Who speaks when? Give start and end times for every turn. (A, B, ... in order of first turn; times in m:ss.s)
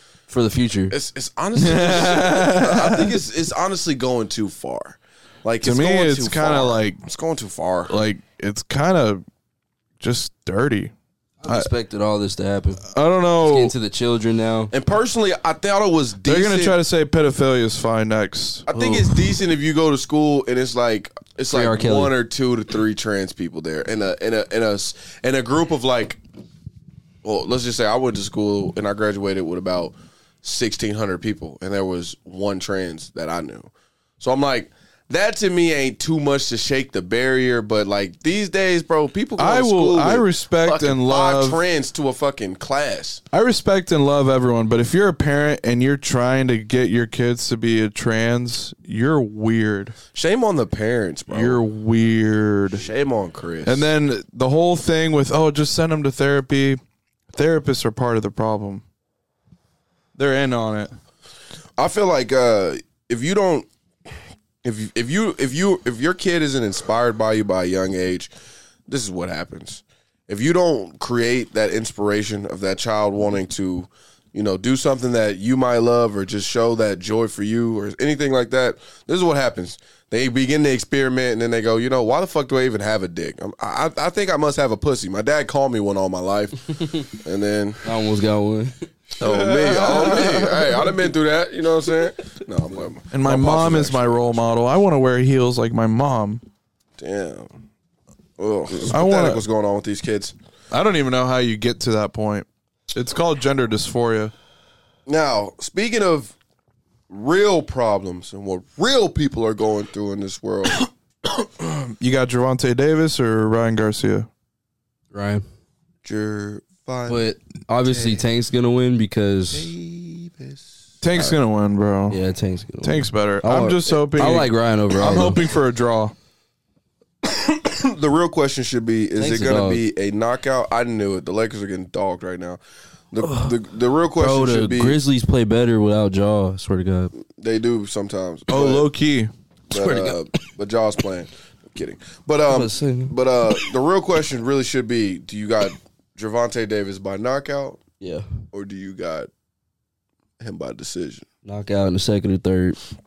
0:00.3-0:00.9 A
0:00.9-0:08.0 B
0:01.6-0:03.1 C
0:05.6-0:07.0 C
0:07.9-0:09.2 C
0:10.0-0:10.9 C
0:11.4-0:12.8 A
0:12.8-0:13.7 C
0:13.4-0:14.7 A
0:14.7-0:16.8 B
0:16.2-0:18.7 C
0:18.7-0:26.2 B
0:18.7-0:19.1 A
0:21.5-0:22.1 A
0:27.2-0:43.2 B
0:39.4-0:41.6 C
0:43.3-0:50.0 C
0:50.1-0:51.6 B
0:51.3-0:52.8 C
0:52.7-0:53.9 B
0:53.6-0:56.8 C
0:57.3-0:58.8 C
1:00.2-1:00.9 C
1:01.8-1:03.7 B
1:04.6-1:08.3 B
1:08.9-1:27.8 B
1:27.8-1:28.9 A
1:29.2-1:34.4 B
1:29.2-1:30.9 C
1:33.1-1:36.4 C
1:37.0-1:37.5 B
1:38.4-1:40.3 B
1:38.9-1:39.4 C
1:40.7-1:44.3 C
1:45.0-1:46.3 B
1:47.1-1:50.8 B
1:51.6-1:54.3 C
1:55.1-1:55.4 A
1:56.0-1:57.2 B
1:57.1-1:59.7 A
1:57.8-1:58.2 B
1:59.5-2:00.7 B
2:01.0-2:02.2 C
2:02.1-2:05.4 A
2:02.8-2:06.1 C
2:07.2-2:12.6 B
2:09.2-2:09.8 A
2:13.1-2:15.0 B
2:13.2-2:13.5 A
2:14.2-2:17.1 A
2:17.2-2:18.9 B
2:18.5-2:19.3 C
2:19.7-2:20.2 A
2:19.7-2:27.8 B
2:22.5-2:23.1 A
2:28.0-2:28.2 A
2:28.5-2:29.3 B
2:30.4-2:31.2 B
2:31.4-2:32.8 A